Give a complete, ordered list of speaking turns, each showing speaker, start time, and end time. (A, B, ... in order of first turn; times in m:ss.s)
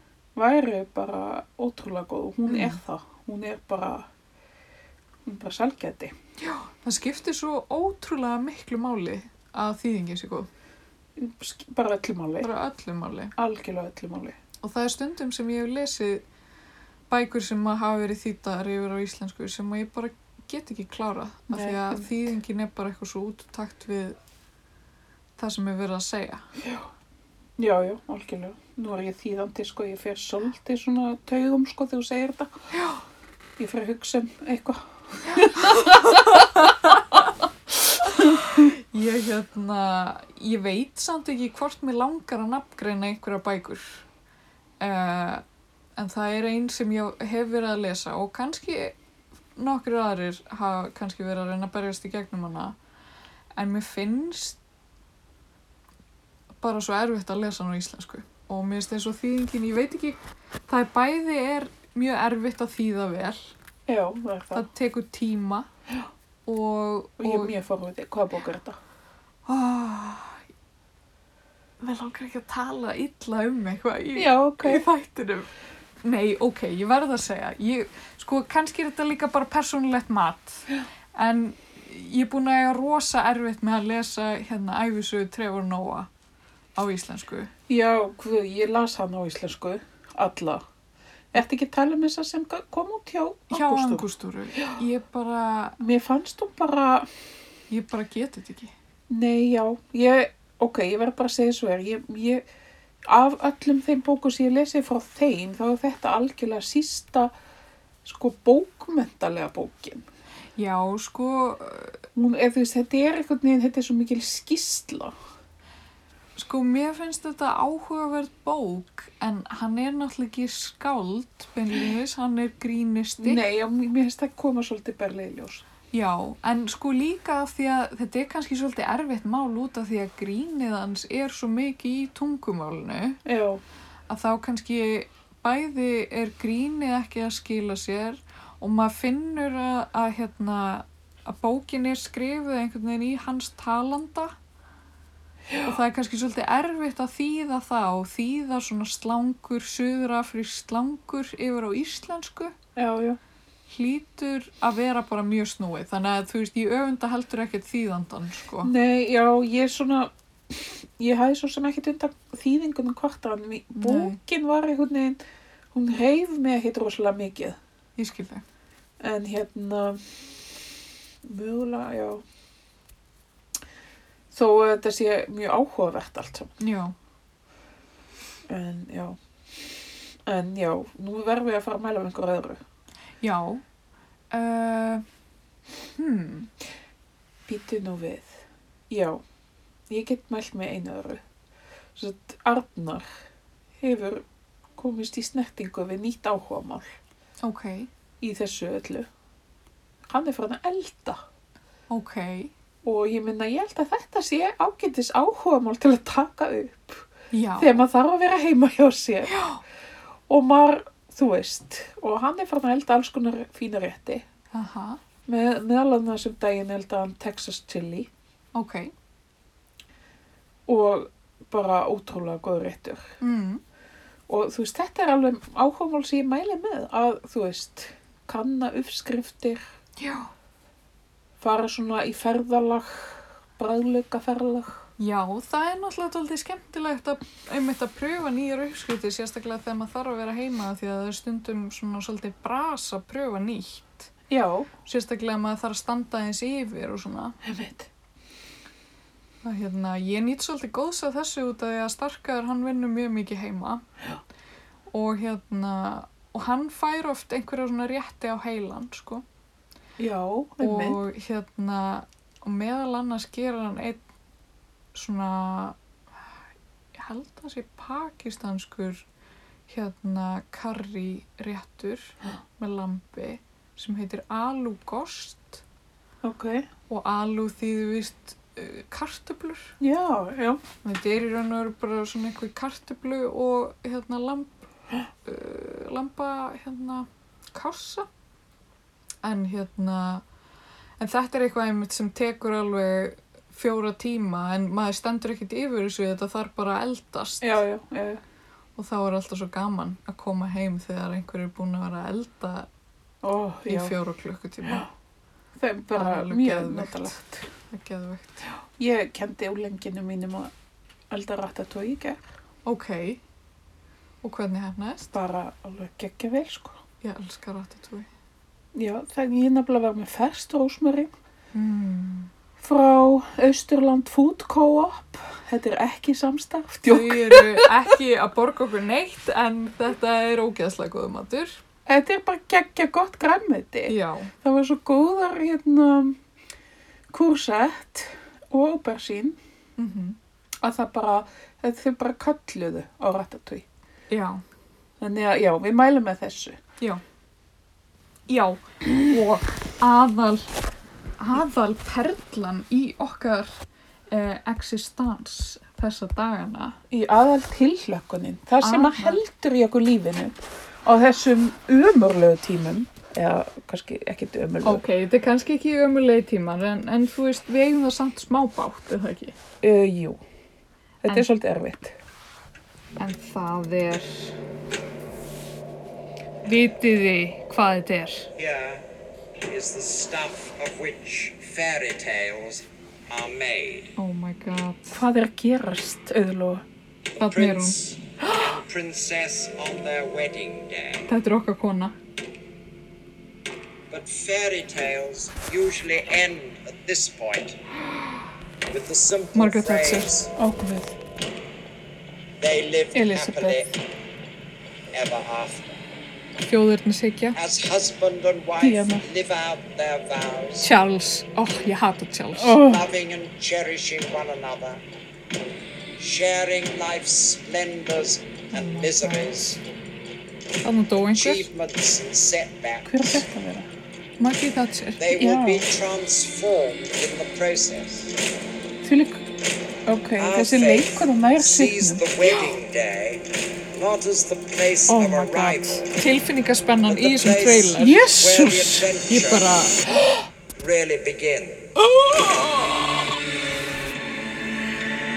0:00.4-0:04.1 A
0:02.5-0:02.8 B
0:05.3-0:06.1 A
0:06.4-0:10.5 B
0:11.2-0:12.5 A
0:12.4-0:13.3 B
0:13.4-0:14.4 A
0:14.6-0:16.2 B
0:17.1-0:24.2 B
0:21.5-0:22.3 A
0:25.4-0:26.4 B
0:26.6-0:26.9 A
0:27.6-0:32.5 A
0:32.7-0:33.0 B
0:33.6-0:36.4 A
0:35.4-0:37.3 B
0:38.0-0:44.0 B
0:44.8-0:45.4 B
0:46.0-0:49.0 B
0:49.6-0:52.8 B
0:53.6-0:54.6 B
0:56.6-1:03.5 B
1:03.9-1:04.7 A
1:04.5-1:05.7 B
1:06.5-1:07.5 B
1:07.2-1:08.8 A
1:09.5-1:10.4 B
1:11.8-1:15.5 B
1:14.2-1:14.8 A
1:16.0-1:26.1 B
1:26.8-1:27.5 B
1:27.7-1:30.6 A
1:31.3-1:34.0 A
1:33.5-1:35.8 B
1:35.8-1:37.1 A
1:37.7-1:38.7 B
1:39.1-1:42.5 A
1:43.0-1:47.3 A
1:48.0-1:50.1 A
1:50.6-1:52.0 B
1:52.2-1:55.1 A
1:56.4-2:03.4 B
2:03.2-2:05.6 A
2:05.9-2:13.2 B
2:13.2-2:13.6 A
2:14.1-2:24.4 B
2:25.6-2:32.5 B
2:32.8-2:33.2 A
2:33.7-2:38.7 B
2:38.6-2:45.2 A
2:43.8-2:44.2 B
2:45.7-2:47.6 A
2:48.0-2:48.4 B
2:49.0-2:50.3 A
2:51.2-2:52.2 A
2:54.3-2:56.5 A
2:56.6-2:57.0 B
2:58.5-2:59.2 A
3:00.3-3:02.6 A
3:03.2-3:03.6 B
3:04.3-3:05.0 B
3:06.0-3:06.5 B
3:07.5-3:09.2 A
3:09.9-3:11.2 A
3:12.0-3:13.2 A
3:13.8-3:14.2 A
3:14.8-3:17.0 A
3:17.4-3:17.9 B
3:18.2-3:19.1 A
3:20.1-3:21.2 A
3:21.9-3:22.5 B
3:22.8-3:27.1 A
3:27.3-3:27.8 B
3:27.6-3:29.4 A
3:29.2-3:29.6 B
3:30.3-3:34.2 A
3:34.5-3:35.0 B
3:35.3-3:38.1 A
3:38.5-3:38.9 B
3:40.7-3:43.2 A
3:43.2-3:43.6 B
3:44.3-3:49.6 A
3:50.0-3:50.3 B
3:51.4-3:54.8 A
3:55.0-4:04.1 B
4:04.3-4:04.7 A
4:04.9-4:07.4 B
4:07.4-4:07.9 A
4:09.4-4:13.8 B
4:14.9-4:19.2 B
4:20.0-4:21.0 A
4:20.6-4:24.0 B
4:24.9-4:25.8 B
4:26.9-4:29.0 B
4:29.7-4:35.6 B
4:36.2-4:36.7 A
4:36.9-4:39.8 B
4:39.8-4:40.6 A
4:40.8-4:44.6 B
4:45.2-4:48.1 B
4:49.2-4:50.2 B
4:51.0-4:57.6 B
4:57.4-4:58.2 A
4:58.8-5:02.7 B
5:03.2-5:04.0 A
5:03.7-5:04.9 B
5:05.6-5:07.4 A
5:05.9-5:08.4 B
5:08.8-5:10.5 A
5:11.1-5:12.2 A
5:12.6-5:13.2 B
5:14.2-5:15.2 B
5:15.1-5:16.8 A
5:17.0-5:18.1 B
5:18.7-5:21.1 A
5:21.5-5:22.3 B
5:22.6-5:27.9 A
5:26.9-5:31.6 B
5:31.9-5:36.2 A
5:33.9-5:34.3 B
5:37.1-5:39.4 A
5:39.8-5:40.2 B
5:40.6-5:43.7 A
5:44.1-5:44.4 B
5:45.0-5:46.6 A
5:48.3-5:50.5 B
5:51.2-5:53.6 B
5:54.1-5:56.8 B
5:56.9-6:04.8 A
5:58.6-5:59.2 B
6:04.6-6:09.4 B
6:09.6-6:10.2 A
6:11.0-6:12.0 A
6:13.0-6:14.4 B
6:16.4-6:18.3 B
6:18.4-6:18.8 C
6:19.4-6:23.9 C
6:24.0-6:25.0 B
6:24.9-6:26.6 A
6:27.2-6:31.1 C
6:27.2-6:28.0 B
6:31.1-6:31.9 B
6:33.9-6:37.6 C
6:38.7-6:40.3 C
6:39.4-6:40.1 B
6:40.4-6:41.0 A
6:42.4-6:43.7 C
6:42.9-6:43.6 A
6:44.9-6:45.8 C
6:46.5-6:47.4 B
6:47.4-6:50.7 C
6:48.6-6:49.0 A
6:50.6-6:52.6 B
6:52.4-6:52.8 A
6:52.6-6:54.8 C
6:56.0-6:59.6 C
6:58.5-6:59.3 B
7:00.6-7:01.5 B
7:01.0-7:03.1 C
7:02.9-7:03.7 A
7:04.2-7:05.0 B
7:05.0-7:08.2 C
7:05.1-7:05.7 A
7:08.8-7:09.2 A
7:09.9-7:12.0 A
7:10.2-7:16.0 C
7:14.9-7:18.0 B
7:16.9-7:19.6 C
7:17.8-7:18.9 A
7:19.1-7:19.8 B
7:20.6-7:21.7 C
7:21.9-7:22.8 B